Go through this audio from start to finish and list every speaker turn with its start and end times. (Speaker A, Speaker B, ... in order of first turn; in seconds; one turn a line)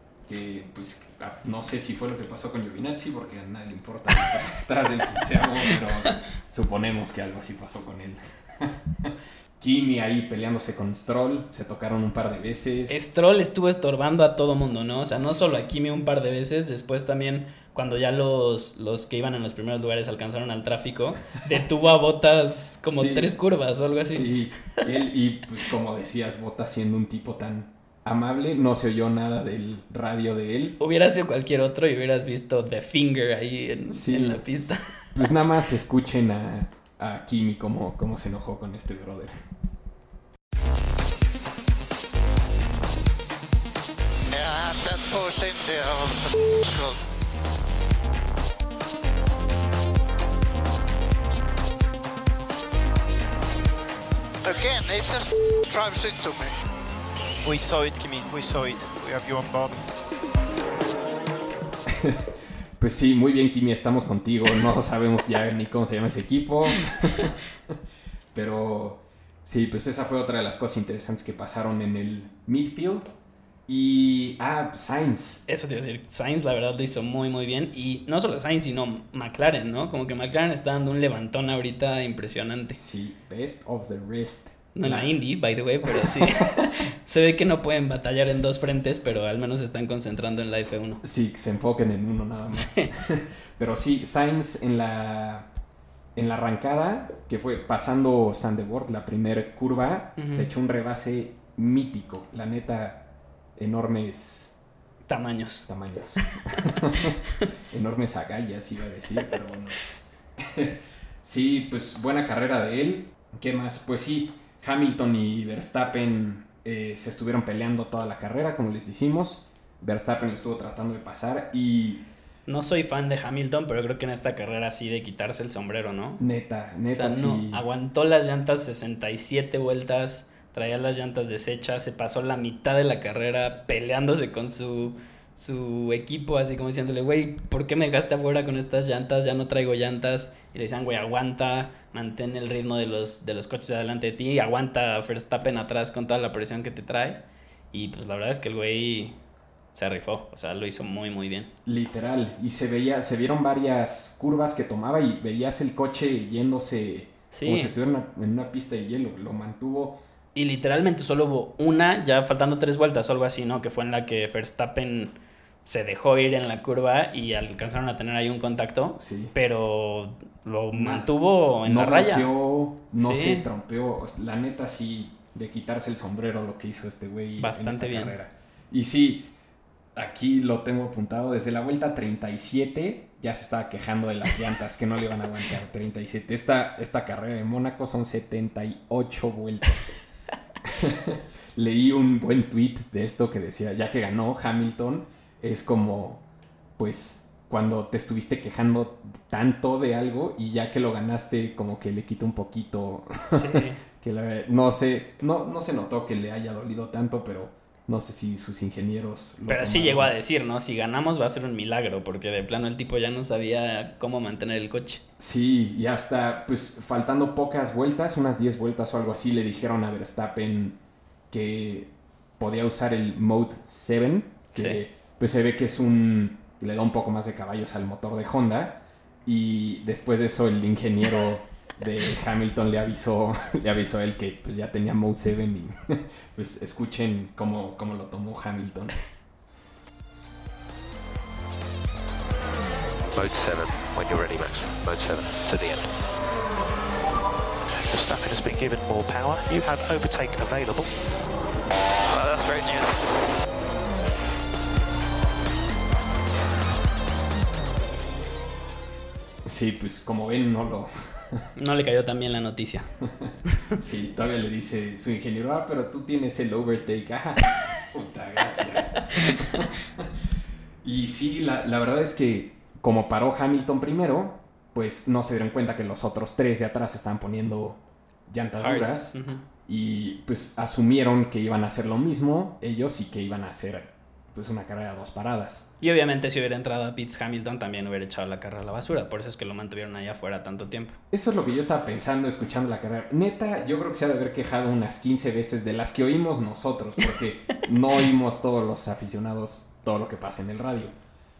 Speaker A: 0.3-13.0
Speaker B: 12.9-24.3
Speaker A: 22.9-23.3
Speaker A: 23.9-30.8
Speaker B: 30.8-34.9
Speaker A: 33.9-34.4
Speaker A: 35.1-39.4
Speaker C: 44.3-47.0
Speaker C: 54.4-56.5
Speaker D: 57.4-59.8
Speaker A: 62.0-67.3
Speaker A: 68.3-73.1
Speaker A: 73.7-75.4
Speaker B: 75.5-82.8
Speaker A: 82.7-85.1
Speaker B: 84.8-91.0
Speaker A: 85.9-86.4
Speaker A: 91.0-95.5
Speaker B: 92.6-92.9
Speaker A: 96.1-104.5
Speaker B: 100.2-100.5
Speaker B: 105.1-106.3
Speaker A: 105.7-107.2
Speaker A: 107.7-109.8
Speaker A: 110.4-122.0
Speaker B: 122.5-126.2
Speaker A: 126.2-127.6
Speaker B: 126.9-149.2
Speaker B: 149.7-151.5
Speaker A: 151.7-160.0
Speaker B: 157.3-157.7
Speaker B: 160.3-172.3
Speaker A: 169.0-169.3
Speaker A: 170.7-171.1
Speaker A: 171.6-179.3
Speaker B: 172.9-173.4
Speaker B: 177.4-178.2
Speaker A: 179.9-190.0
Speaker A: 190.7-196.2
Speaker A: 196.8-210.1
Speaker B: 203.3-203.8
Speaker B: 209.5-215.0
Speaker A: 215.2-220.8
Speaker A: 221.3-239.0
Speaker B: 224.5-224.8
Speaker E: 243.0-245.9
Speaker F: 247.9-250.9
Speaker D: 252.0-253.0
Speaker A: 259.4-261.4
Speaker B: 261.6-262.9
Speaker A: 263.1-270.1
Speaker A: 270.8-285.7
Speaker B: 278.6-279.4
Speaker B: 285.8-291.0
Speaker A: 291.1-300.9